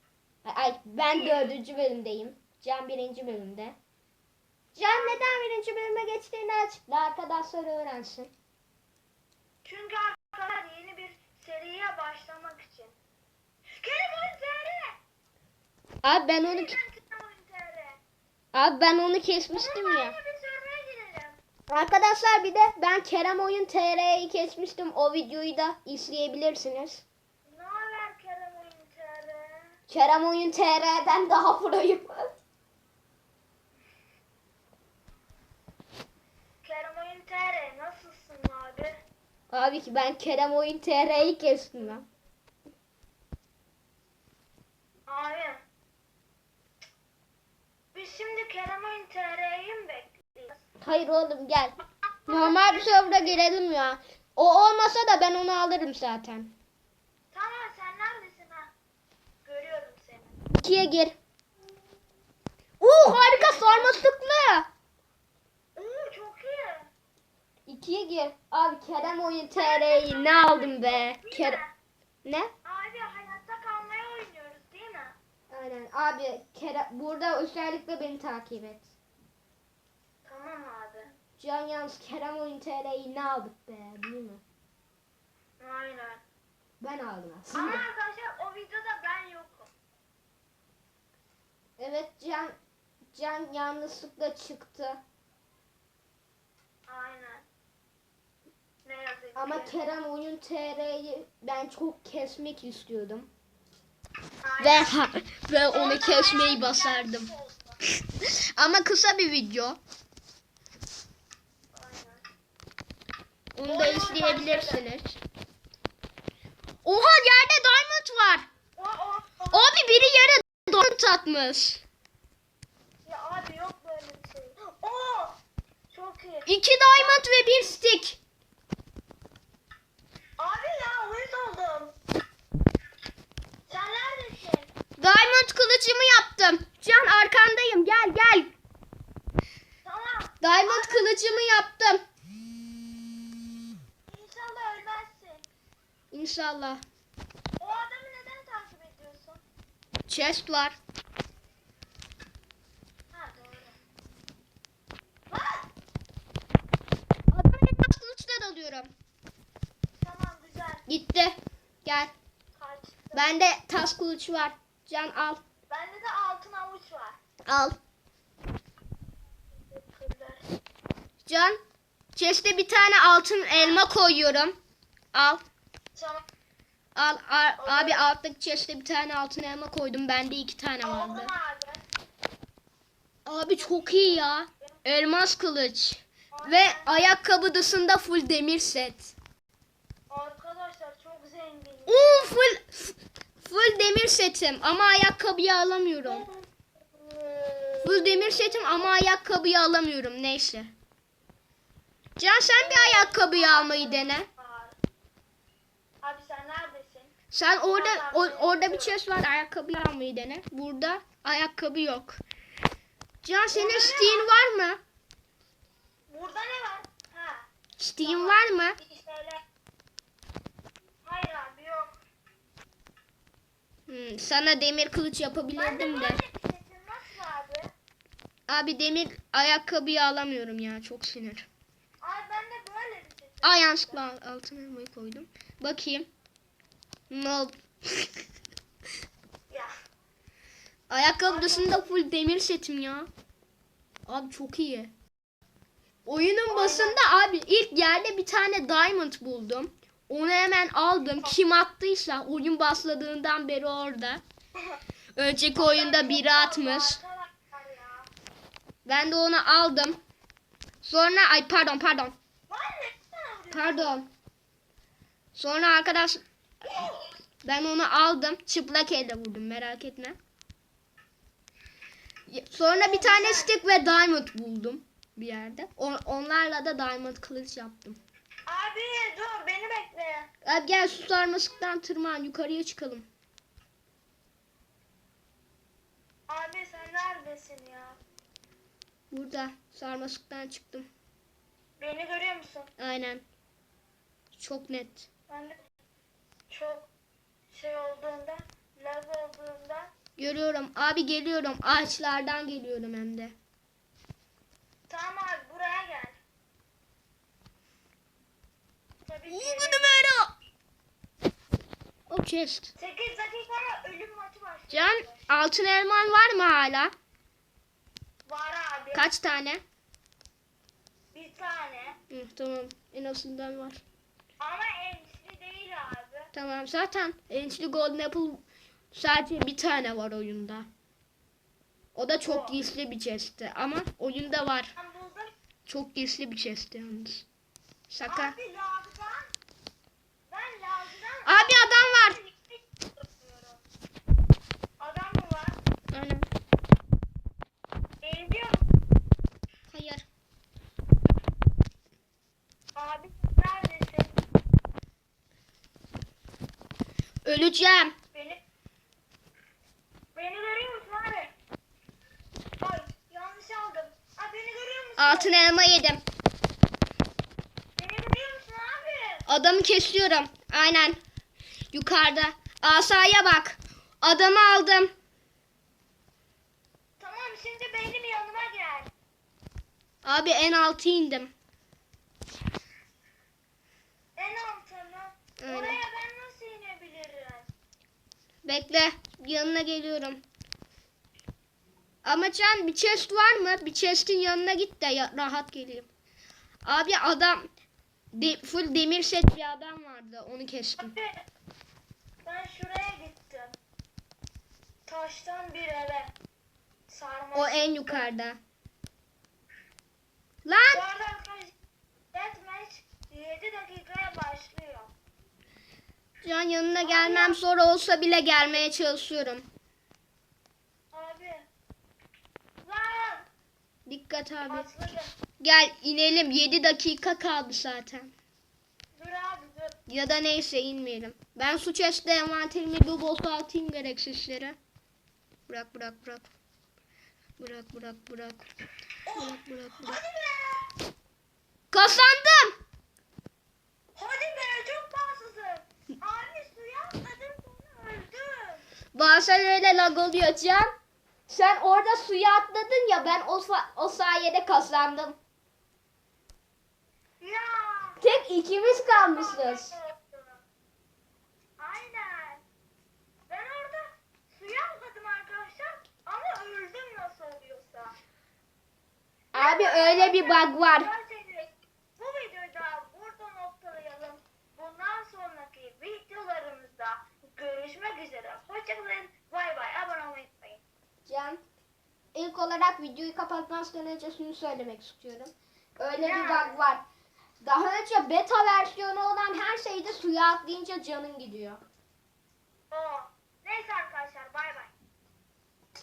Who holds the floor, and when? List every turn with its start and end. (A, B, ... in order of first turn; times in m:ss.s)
0:00.4-0:03.8 A
0:01.1-0:01.5 B
0:04.8-0:08.3 A
0:04.8-0:05.4 B
0:09.6-0:13.0 B
0:13.7-0:15.0 B
0:16.0-0:16.8 A
0:16.4-0:18.0 B
0:18.5-0:20.2 A
0:19.5-0:21.4 B
0:21.7-0:27.0 A
0:27.5-0:29.7 B
0:29.9-0:32.3 A
0:36.6-0:39.0 B
0:39.5-0:42.0 A
0:45.1-0:45.6 B
0:47.9-0:50.7 B
0:50.8-0:51.8 A
0:52.3-0:53.4 B
0:52.3-0:56.5 A
0:57.3-0:58.7 B
0:59.4-1:00.4 B
1:00.5-1:01.2 A
1:02.8-1:04.7 A
1:03.2-1:04.0 B
1:05.8-1:06.9 B
1:07.7-1:11.6 A
1:09.5-1:11.7 B
1:12.2-1:12.5 A
1:12.6-1:15.2 B
1:15.5-1:18.9 A
1:20.2-1:21.1 B
1:21.4-1:24.4 A
1:25.6-1:26.2 B
1:26.8-1:27.8 A
1:27.6-1:29.7 B
1:31.8-1:32.6 A
1:33.1-1:35.0 A
1:36.9-1:37.4 B
1:38.8-1:39.8 B
1:39.4-1:43.3 A
1:44.4-1:45.0 B
1:44.6-1:47.3 A
1:45.7-1:47.8 B
1:48.2-1:49.8 A
1:51.7-1:52.2 B
1:53.6-1:55.2 A
1:53.7-1:54.8 B
1:56.8-1:58.5 A
1:58.8-2:00.1 B
1:59.5-2:01.8 A
2:03.0-2:05.4 B
2:05.9-2:07.3 B
2:06.5-2:08.2 A
2:10.4-2:12.0 B
2:13.7-2:14.7 B
2:15.0-2:18.5 A
2:19.8-2:21.2 B
2:20.4-2:22.0 A
2:24.1-2:25.5 B
2:26.1-2:26.8 A
2:27.6-2:29.4 B
2:30.1-2:30.8 A
2:33.1-2:33.8 B
2:35.3-2:35.7 B
2:37.3-2:38.9 A
2:40.0-2:40.8 B
2:40.9-2:42.1 A
2:42.6-2:43.3 B
2:43.1-2:45.4 A
2:45.7-2:47.2 B
2:47.5-2:47.8 A
2:49.5-2:50.5 B
2:51.3-2:51.6 A
2:52.2-2:54.6 A
2:53.5-2:53.9 B
2:55.1-2:55.4 A
2:55.9-2:56.2 B
2:57.0-3:01.3 A
2:57.6-2:58.0 B
3:00.8-3:01.8 B
3:03.3-3:09.2 A
3:03.6-3:04.7 B
3:06.3-3:06.9 B
3:10.1-3:12.4 B
3:11.9-3:16.3 A
3:16.0-3:18.9 B
3:17.8-3:20.7 A
3:22.2-3:24.3 A
3:22.5-3:24.8 B
3:26.0-3:27.1 B
3:27.3-3:32.2 A
3:27.7-3:29.0 B
3:33.2-3:34.8 A
3:33.5-3:34.3 B
3:36.1-3:37.5 B
3:37.8-3:38.8 A
3:38.0-3:39.4 B
3:41.0-3:42.0 B
3:43.9-3:46.2 A
3:45.6-3:47.7 B
3:48.5-3:51.5 A
3:52.0-3:54.0 B
3:53.4-3:56.1 A
3:57.1-3:58.2 A
4:00.9-4:03.1 A
4:01.3-4:01.9 B
4:04.1-4:04.9 A
4:06.1-4:14.2 A
4:06.5-4:07.0 B
4:15.2-4:17.0 A
4:15.6-4:18.1 B
4:18.8-4:20.0 A
4:20.8-4:22.2 A
4:22.5-4:24.0 B
4:23.5-4:24.1 A
4:25.4-4:26.2 A
4:26.6-4:27.0 B
4:27.4-4:30.2 A
4:32.3-4:38.0 A
4:32.7-4:33.5 B
4:38.5-4:40.3 B
4:40.4-4:43.1 A
4:46.3-4:48.0 B
4:49.1-4:50.9 A
4:51.8-4:52.7 B
4:52.8-4:53.2 A
4:54.3-4:55.1 A
4:55.3-4:55.6 B
4:56.5-4:56.9 B
4:57.5-4:59.9 B
5:00.2-5:03.4 A
5:04.9-5:06.2 B
5:09.0-5:10.1 B
5:09.3-5:10.3 A
5:12.1-5:12.7 A
5:12.8-5:15.3 B
5:14.7-5:16.9 A
5:18.3-5:19.1 B
5:18.9-5:19.6 A
5:21.1-5:22.0 B
5:22.1-5:23.8 A
5:24.4-5:26.3 B
5:26.3-5:30.7 A
5:32.0-5:34.7 A
5:32.2-5:32.6 B
5:34.8-5:35.3 B
5:35.7-5:37.3 A
5:37.9-5:38.4 A
5:38.0-5:39.2 B
5:40.3-5:43.6 B
5:41.2-5:42.2 A
5:44.8-5:45.6 B
5:45.9-5:46.3 A
5:48.0-5:48.6 B
5:49.7-5:50.0 A
5:52.8-5:54.2 B
5:57.2-5:57.9 A
5:58.1-5:58.4 B
6:00.2-6:01.3 B
6:02.6-6:05.3 B
6:05.0-6:06.0 A
6:07.8-6:09.2 B
6:09.3-6:11.0 A
6:11.7-6:14.9 A
6:17.0-6:18.9 B
6:20.0-6:21.3 A
6:24.2-6:27.5 B
6:25.4-6:25.8 A
6:28.4-6:30.2 A
6:32.0-6:35.9 A
6:36.6-6:37.5 A
6:38.1-6:40.9 A
6:40.8-6:41.2 B
6:42.2-6:43.6 B
6:44.9-6:46.1 B
6:46.9-6:48.1 B
6:47.3-6:48.4 A
6:50.4-6:50.8 A
6:50.7-6:51.5 B
6:52.1-6:54.9 B
6:56.2-6:59.5 A
6:56.8-6:57.4 B
7:00.9-7:01.5 B
7:02.6-7:03.3 B
7:03.9-7:04.7 A
7:04.4-7:05.1 B
7:05.4-7:08.1 A
7:09.0-7:09.8 B
7:09.9-7:14.6 A
7:15.5-7:16.3 A
7:17.4-7:18.4 A
7:19.1-7:20.7 B
7:19.1-7:20.0 A
7:21.7-7:22.5 A
7:24.0-7:28.6 B
7:28.9-7:30.7 A
7:31.3-7:35.2 A
7:37.2-7:38.0 B
7:38.0-7:39.7 A
7:38.7-7:40.4 B
7:41.6-7:42.4 B
7:43.3-7:48.0 B
7:49.3-7:50.9 A
7:49.3-8:00.6 B
8:01.1-8:01.4 A
8:02.1-8:06.8 A
8:06.0-8:06.6 B
8:07.4-8:11.6 A
8:12.7-8:14.7 B